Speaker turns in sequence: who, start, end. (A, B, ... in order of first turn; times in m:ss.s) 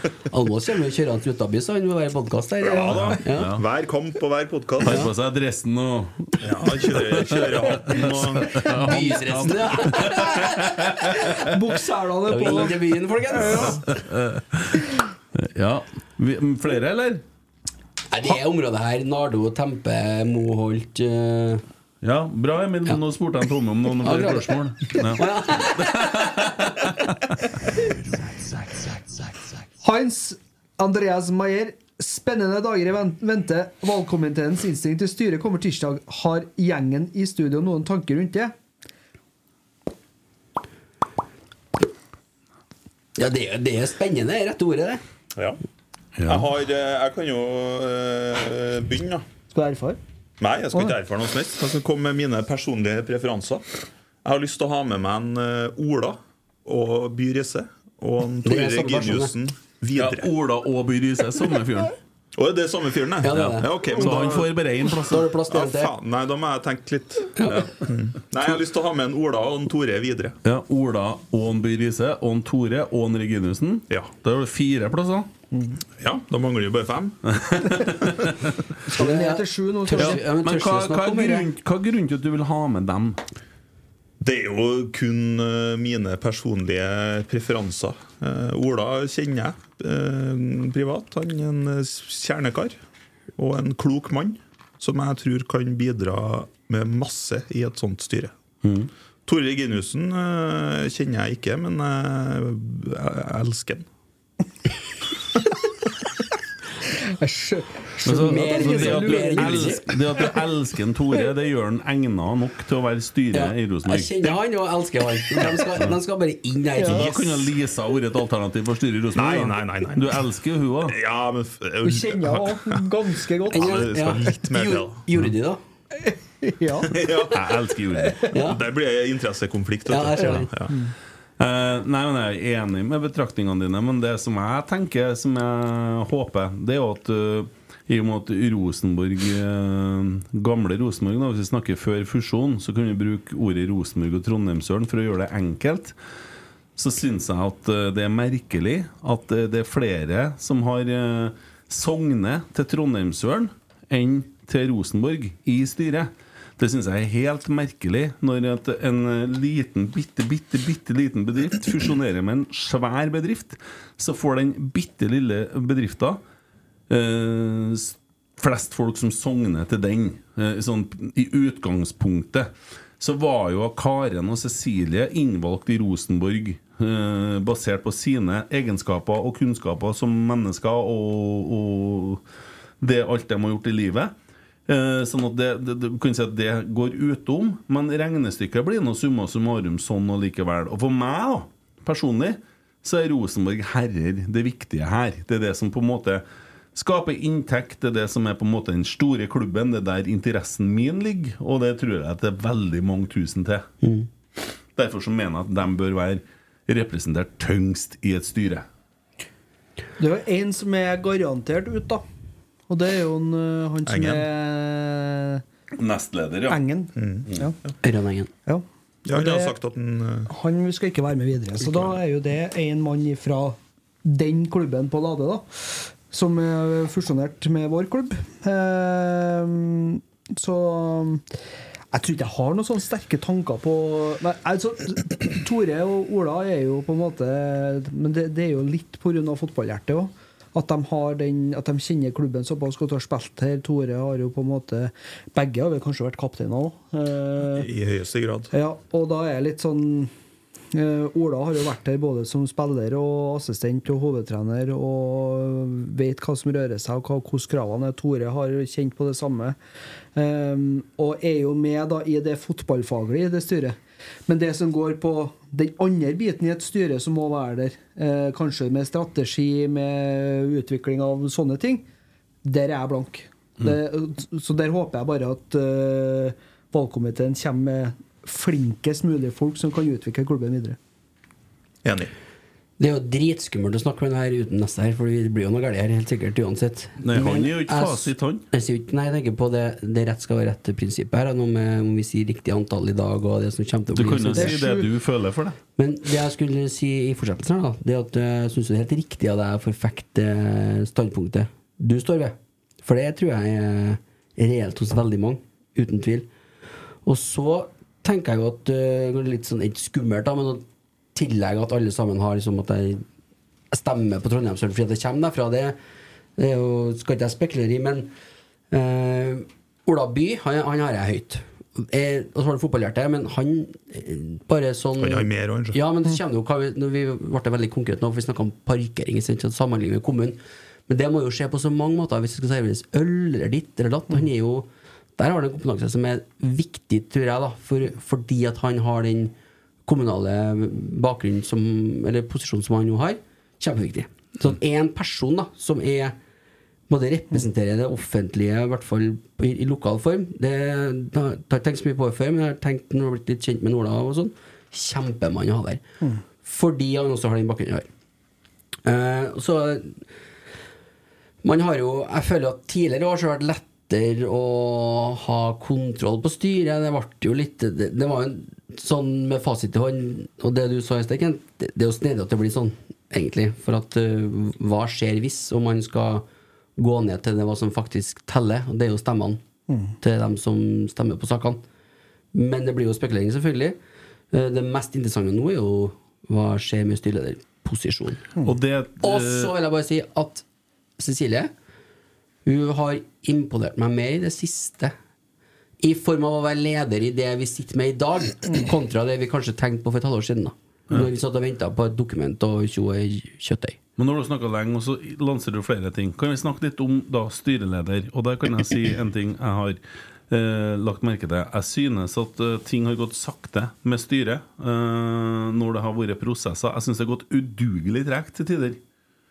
0:00.3-0:03.5 A
0:02.6-0:05.1 B
0:02.9-0:03.6 C
0:04.8-0:11.6 C
0:06.4-0:09.3 B
0:08.6-0:10.9 A
0:11.4-0:13.6 D
0:12.3-0:13.8 A
0:13.5-0:17.2 C
0:18.1-0:21.6 A
0:22.0-0:27.3 C
0:24.0-0:26.1 A
0:29.8-0:38.5 D
0:43.2-0:45.0 A
0:46.2-0:46.5 C
0:46.2-0:49.2 B
0:49.5-0:50.0 D
0:50.4-0:53.7 B
0:54.2-1:00.3 B
0:58.4-0:59.4 A
1:00.0-1:02.0 C
1:02.4-1:04.6 B
1:03.2-1:04.3 A
1:03.3-1:05.3 C
1:05.0-1:05.9 A
1:05.5-1:10.4 B
1:07.4-1:07.7 A
1:07.5-1:07.8 C
1:10.4-1:15.3 C
1:15.5-1:15.8 D
1:16.0-1:17.3 B
1:17.2-1:18.3 C
1:18.9-1:20.2 D
1:18.9-1:21.5 A
1:20.0-1:23.2 C
1:24.2-1:32.8 B
1:33.4-1:38.3 B
1:38.6-1:38.9 C
1:39.3-1:43.9 B
1:47.2-1:50.0 D
1:48.0-1:54.1 C
1:48.1-1:49.9 A
1:53.3-1:57.5 A
1:56.8-1:57.1 D
1:56.8-2:01.0 C
1:59.1-2:00.2 B
2:00.8-2:02.8 B
2:01.8-2:03.8 D
2:03.4-2:05.0 B
2:03.5-2:05.6 A
2:06.0-2:07.0 D
2:06.9-2:07.6 B
2:07.3-2:08.4 C
2:08.3-2:08.6 A
2:08.4-2:10.8 B
2:09.9-2:10.5 A
2:10.4-2:10.9 D
2:11.4-2:26.0 C
2:26.8-2:46.2 C
2:46.9-3:02.2 C
3:02.8-3:04.1 C
3:04.7-3:23.7 C
3:23.8-3:24.1 A
3:24.8-3:28.7 C
3:30.0-3:32.0 D
3:32.7-3:35.4 D
3:33.9-3:34.2 B
3:35.7-3:36.6 C
3:36.5-3:37.6 D
3:37.0-3:37.7 B
3:37.8-3:38.3 A
3:38.5-3:39.6 D
3:39.1-3:40.3 B
3:40.3-3:51.2 D
3:51.9-4:07.7 D
4:07.5-4:08.5 B
4:08.5-4:10.1 D
4:10.7-4:19.6 D
4:20.2-4:31.8 D
4:32.4-4:40.8 D
4:41.8-4:42.1 B
4:42.8-4:54.6 A
4:47.0-4:48.5 C
4:53.9-4:55.6 C
4:54.1-4:54.9 D
4:55.8-5:06.3 A
5:07.1-5:10.6 A
5:11.2-5:13.0 A
5:13.7-5:15.8 A
5:16.4-5:18.1 A
5:18.7-5:39.3 A
5:25.0-5:25.8 B
5:39.9-5:46.2 A
5:46.9-5:55.8 A
5:56.4-5:57.9 A
5:58.8-6:00.0 A
6:01.4-6:16.3 A
6:16.8-6:19.4 A
6:19.7-6:19.9 D
6:20.0-6:21.6 A
6:22.3-6:23.8 A
6:24.3-6:28.2 A
6:28.4-6:29.6 C
6:29.0-6:30.4 A
6:31.0-6:31.5 A
6:32.4-6:34.9 A
6:35.8-6:43.8 A
6:44.0-6:58.8 C